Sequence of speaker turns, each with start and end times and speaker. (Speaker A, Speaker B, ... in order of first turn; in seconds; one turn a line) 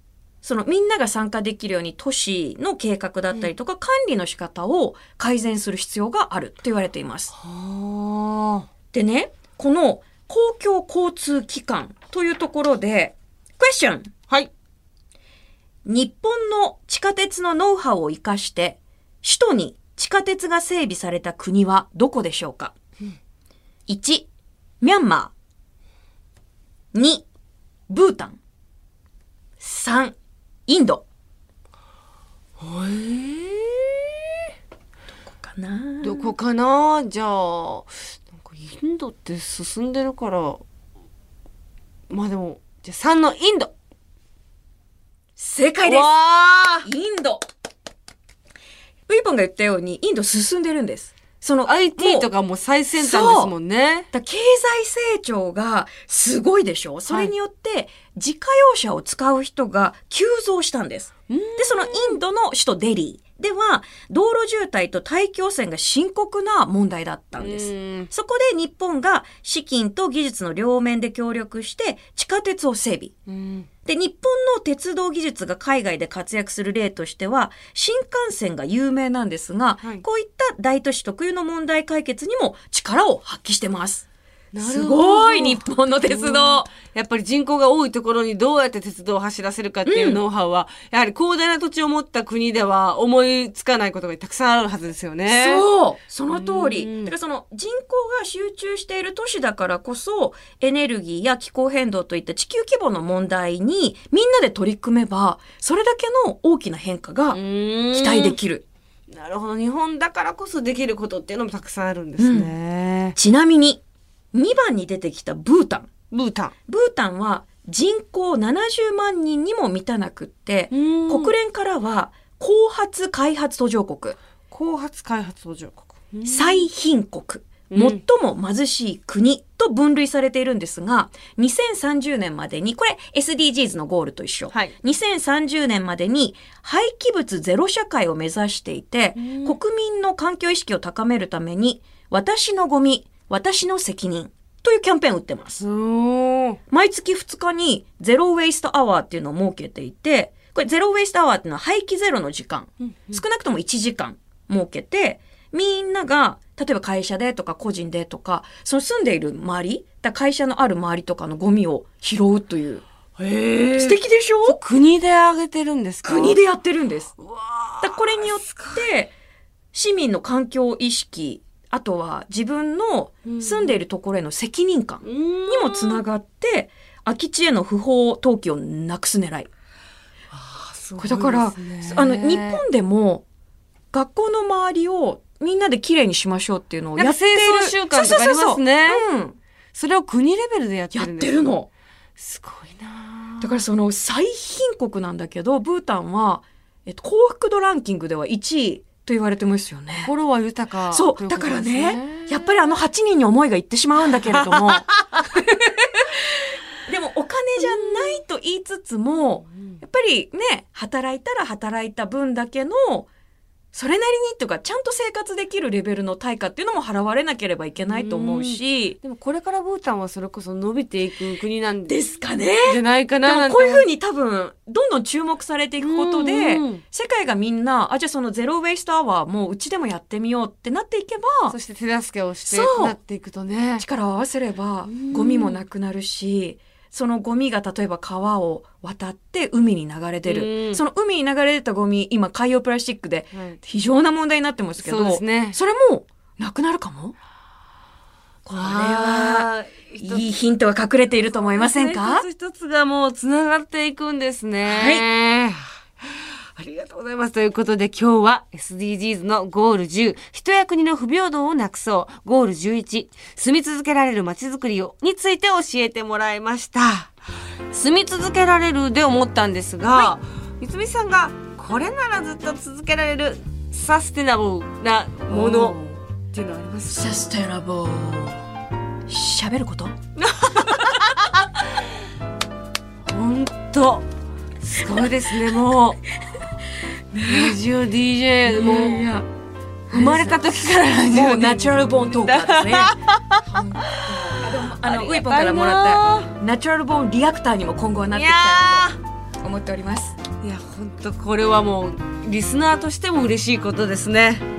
Speaker A: 0.4-7.3
Speaker B: 7.4-8.7
Speaker A: 8.9-14.1
Speaker A: 15.9-22.7
Speaker A: 23.9-24.3
Speaker A: 24.8-25.3
Speaker A: 26.9-27.3
Speaker A: 27.9-28.4
Speaker A: 29.6-30.2
Speaker A: 30.7-31.1
Speaker B: 32.6-33.9
Speaker A: 35.3-36.4
Speaker B: 36.0-40.6
Speaker B: 42.1-43.7
Speaker A: 45.4-46.1
Speaker B: 45.9-46.9
Speaker A: 46.8-47.4
Speaker A: 49.1-52.3
Speaker B: 51.6-54.1
Speaker A: 53.0-53.5
Speaker A: 54.1-73.1
Speaker B: 61.3-62.2
Speaker B: 67.3-68.1
Speaker B: 73.3-73.7
Speaker A: 73.8-84.1
Speaker B: 84.5-95.7
Speaker A: 84.6-86.7
Speaker A: 89.9-90.2
Speaker A: 95.3-107.4
Speaker B: 96.3-97.1
Speaker B: 107.3-108.4
Speaker A: 107.9-108.7
Speaker B: 109.1-113.2
Speaker A: 112.2-112.5
Speaker A: 113.2-113.8
Speaker A: 114.3-115.9
Speaker B: 116.1-116.5
Speaker A: 116.7-124.2
Speaker B: 120.7-121.3
Speaker B: 124.5-126.7
Speaker A: 126.2-145.6
Speaker B: 127.7-128.0
Speaker B: 139.2-139.6
Speaker B: 145.6-146.6
Speaker A: 146.7-162.8
Speaker B: 163.2-166.4
Speaker A: 163.8-164.6
Speaker A: 166.0-167.1
Speaker B: 167.2-168.8
Speaker A: 167.8-169.1
Speaker A: 169.7-179.5
Speaker B: 173.3-173.8
Speaker B: 175.0-176.0
Speaker B: 180.3-182.6
Speaker A: 181.0-183.2
Speaker A: 183.9-189.4
Speaker B: 186.9-189.0
Speaker B: 189.7-191.4
Speaker A: 190.9-191.7
Speaker B: 192.2-193.5
Speaker A: 193.4-200.1
Speaker B: 200.1-202.5
Speaker A: 200.9-204.9
Speaker B: 204.6-205.1
Speaker A: 206.8-213.1
Speaker B: 207.6-208.2
Speaker A: 213.7-219.0
Speaker B: 217.8-222.0
Speaker A: 221.9-231.6
Speaker B: 222.7-223.9
Speaker B: 225.8-226.8
Speaker B: 231.5-233.8
Speaker A: 232.5-233.0
Speaker A: 233.8-247.2
Speaker B: 234.9-235.6
Speaker B: 240.3-240.8
Speaker B: 244.8-245.6
Speaker A: 248.5-249.5
Speaker B: 248.5-250.3
Speaker A: 250.0-252.3
Speaker B: 251.5-255.6
Speaker A: 254.6-255.1
Speaker B: 256.6-267.1
Speaker B: 267.7-275.8
Speaker A: 269.9-270.2
Speaker A: 275.3-275.8
Speaker B: 276.3-277.2
Speaker A: 276.9-278.4
Speaker A: 279.1-279.9
Speaker B: 280.3-280.9
Speaker B: 283.1-284.1
Speaker B: 284.6-286.0
Speaker A: 287.2-287.5
Speaker B: 287.2-289.1
Speaker A: 288.5-289.2
Speaker A: 289.9-290.4
Speaker B: 289.9-296.3
Speaker A: 291.1-292.9
Speaker A: 293.5-298.9
Speaker B: 298.1-299.0
Speaker A: 299.4-300.2
Speaker B: 300.4-304.5